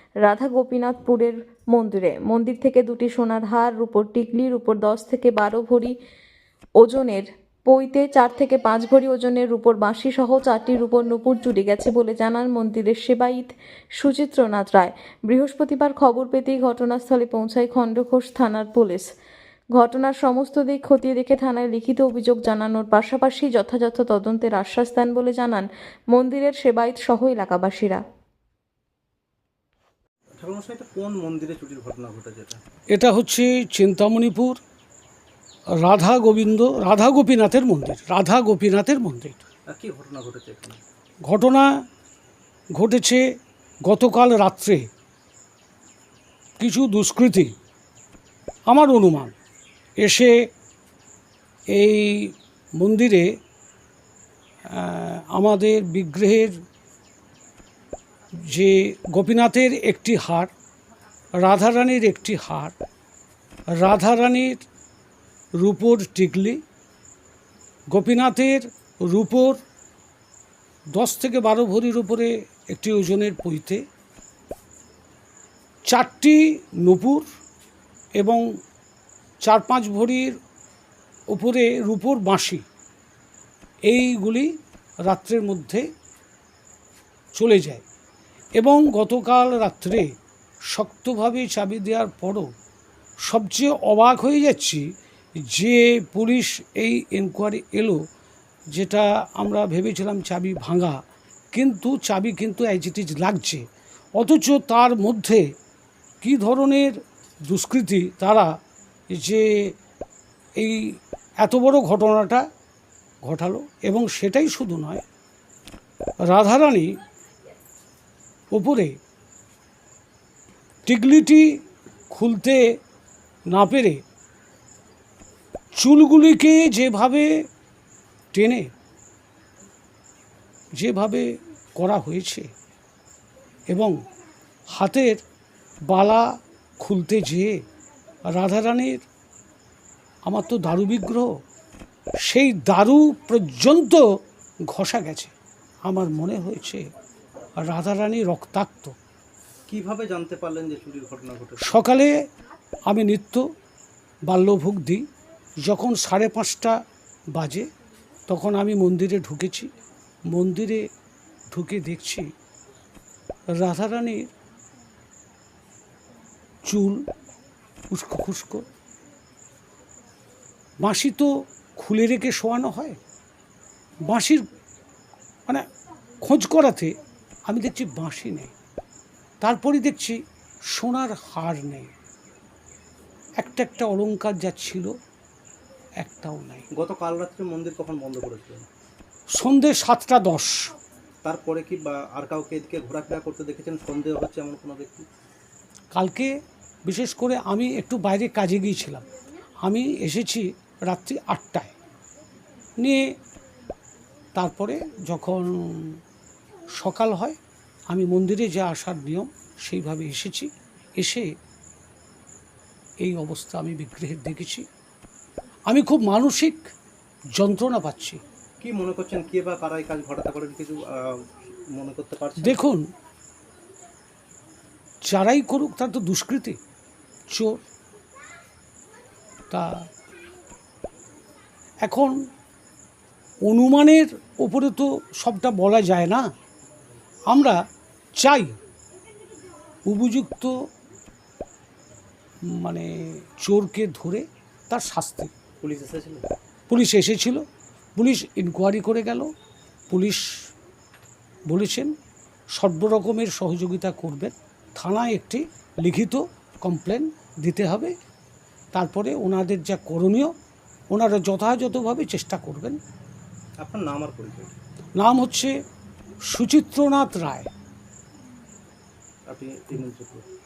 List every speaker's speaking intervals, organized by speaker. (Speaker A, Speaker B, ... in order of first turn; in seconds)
Speaker A: 0.2-5.9, 6.8-19.1, 19.7-28.0
Speaker B: 30.4-32.6, 39.7-40.8, 149.7-151.8, 186.8-188.7, 191.2-195.1, 218.6-222.6, 245.6-246.2, 263.6-264.5, 269.3-270.2
Speaker C: 32.9-34.6, 35.8-39.4, 41.3-41.7, 42.8-43.2, 43.8-44.8, 46.6-47.5, 48.7-49.3, 50.0-50.3, 51.7-53.3, 54.7-56.5, 58.5-60.5, 61.4-62.8, 63.8-64.6, 65.6-66.6, 67.9-69.6, 70.9-73.8, 75.9-77.3, 78.2-78.4, 79.4-80.4, 81.3-82.6, 83.9-84.5, 85.1-85.8, 87.3-87.8, 88.6-90.1, 90.7-92.5, 93.3-94.8, 95.5-98.0, 98.7-101.0, 101.5-103.6, 104.2-105.4, 106.2-107.0, 107.5-108.5, 109.1-109.7, 110.6-112.4, 113.2-115.0, 116.3-117.0, 118.5-118.9, 120.8-121.5, 122.1-122.6, 123.5-124.0, 125.8-127.4, 128.3-128.7, 130.8-132.5, 133.7-134.0, 134.8-135.2, 135.9-136.2, 136.8-137.6, 138.3-139.0, 140.2-141.3, 142.2-144.0, 144.7-145.3, 145.8-146.8, 147.6-148.9, 151.6-152.2, 152.9-153.4, 154.3-155.0, 155.6-156.8, 157.3-157.7, 158.3-159.7, 160.3-160.8, 161.5-162.3, 163.6-164.3, 166.7-167.0, 167.9-168.7, 170.8-173.0, 174.1-174.4, 176.2-176.9, 177.5-178.5, 179.4-180.2, 180.8-181.9, 183.4-184.9, 186.0-186.7, 189.3-190.6, 195.9-196.3, 196.8-199.0, 199.6-201.7, 202.8-203.0, 204.3-206.0, 206.8-207.4, 207.9-211.3, 213.0-214.7, 215.7-216.7, 217.3-218.2, 222.4-222.9, 225.1-226.6, 227.3-227.6, 229.5-229.8, 231.8-232.2, 233.4-236.3, 237.3-237.6, 238.2-238.6, 239.9-240.6, 242.5-245.3, 246.7-247.4, 247.9-249.3, 249.9-250.2, 251.5-251.9, 252.6-257.9, 258.7-260.3, 260.9-262.8, 265.0-265.5, 266.3-267.5